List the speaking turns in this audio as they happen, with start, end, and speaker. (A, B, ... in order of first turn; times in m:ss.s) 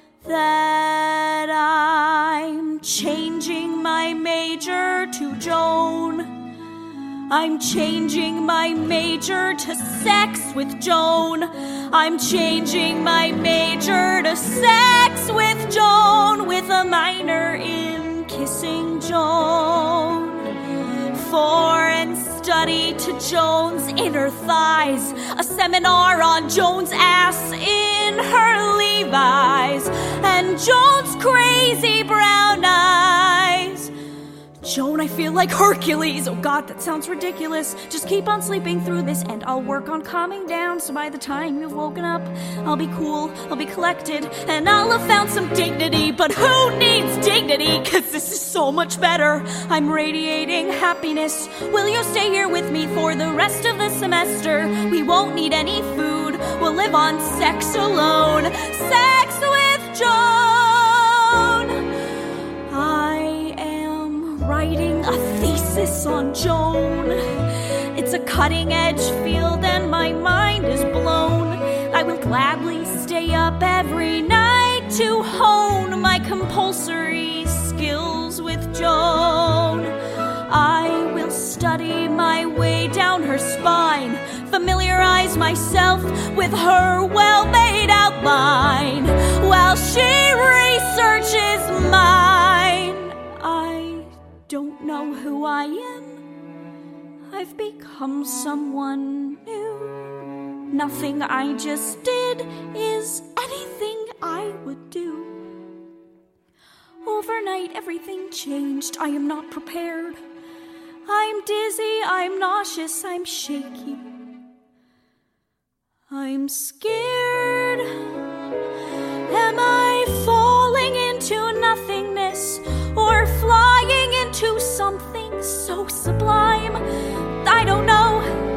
0:00.2-0:06.3 A
0:07.3-0:20.4 A
0:21.1-0:33.9 A
0:34.6-1:01.8 A
1:02.7-1:07.2 A
1:07.9-1:19.9 A
1:20.5-1:36.2 A
1:37.3-1:40.0 A
1:40.7-1:45.4 A
1:47.0-1:50.2 A
1:51.1-1:54.0 A
1:56.1-1:57.9 A
1:59.3-2:06.8 A
2:07.4-2:08.4 A